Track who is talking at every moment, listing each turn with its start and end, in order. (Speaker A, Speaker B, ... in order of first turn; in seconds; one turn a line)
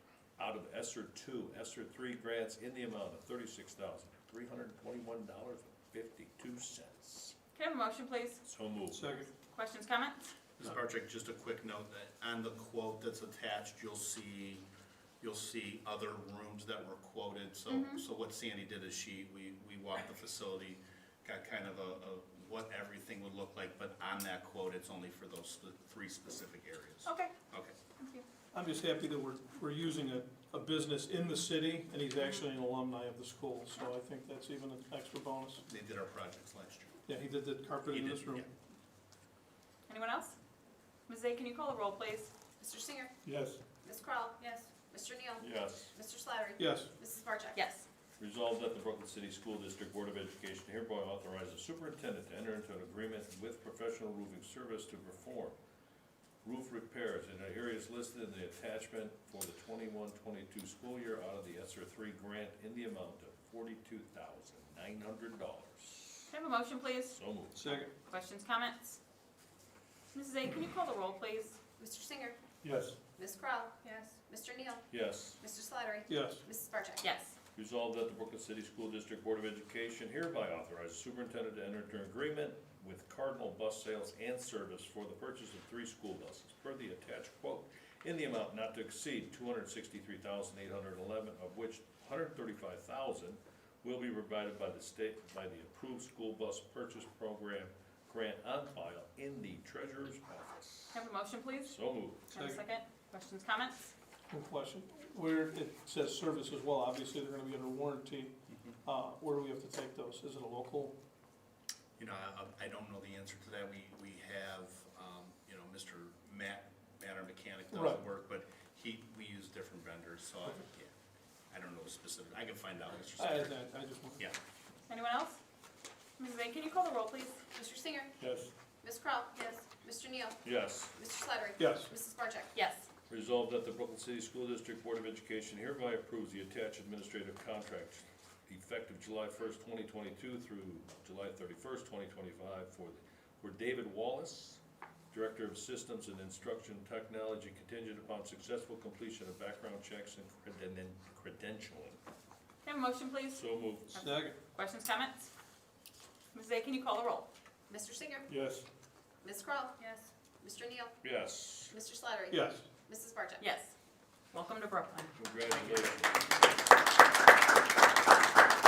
Speaker A: 0.4-7.3
Speaker B: 7.5-8.4
Speaker A: 8.4-9.1
Speaker C: 8.9-9.3
Speaker B: 9.3-10.2
Speaker D: 10.6-14.6
Speaker D: 15.2-27.7
Speaker B: 17.7-18.0
Speaker B: 27.0-27.3
Speaker B: 28.0-28.2
Speaker C: 28.5-35.6
Speaker B: 32.2-32.5
Speaker D: 35.7-37.0
Speaker C: 37.0-38.4
Speaker D: 37.8-38.5
Speaker B: 39.9-40.4
Speaker B: 41.1-42.3
Speaker E: 42.6-43.1
Speaker C: 43.2-43.6
Speaker E: 43.8-47.6
Speaker B: 44.4-44.6
Speaker A: 45.4-45.9
Speaker C: 46.6-46.9
Speaker B: 47.5-47.9
Speaker A: 48.2-55.5
Speaker A: 56.4-66.3
Speaker B: 66.3-67.2
Speaker A: 67.1-67.8
Speaker C: 67.6-67.9
Speaker B: 68.1-69.0
Speaker B: 70.1-71.6
Speaker E: 71.8-72.4
Speaker C: 72.6-72.9
Speaker E: 73.2-73.7
Speaker B: 73.8-74.1
Speaker E: 74.3-74.8
Speaker A: 74.9-75.4
Speaker E: 75.4-77.0
Speaker C: 76.1-76.4
Speaker B: 77.0-77.3
Speaker A: 77.5-101.0
Speaker B: 100.9-101.8
Speaker A: 101.6-102.3
Speaker B: 102.3-103.9
Speaker C: 104.3-108.3
Speaker C: 108.8-110.9
Speaker D: 112.0-120.9
Speaker D: 121.5-123.6
Speaker C: 123.2-124.2
Speaker B: 124.9-125.4
Speaker B: 126.2-127.4
Speaker E: 127.5-128.1
Speaker C: 128.2-128.5
Speaker E: 128.8-130.4
Speaker B: 129.3-129.6
Speaker A: 130.4-130.9
Speaker E: 130.9-132.5
Speaker C: 131.6-131.9
Speaker B: 132.5-132.9
Speaker A: 133.1-144.6
Speaker A: 145.1-152.0
Speaker B: 152.6-155.3
Speaker A: 153.3-153.9
Speaker C: 154.0-154.3
Speaker B: 156.3-157.3
Speaker E: 157.7-158.3
Speaker C: 158.3-158.6
Speaker E: 159.2-159.8
Speaker B: 159.8-160.1
Speaker E: 160.4-161.0
Speaker A: 161.0-161.7
Speaker E: 161.7-163.4
Speaker C: 162.3-162.7
Speaker B: 163.4-163.7
Speaker B: 164.3-165.2
Speaker A: 165.2-166.2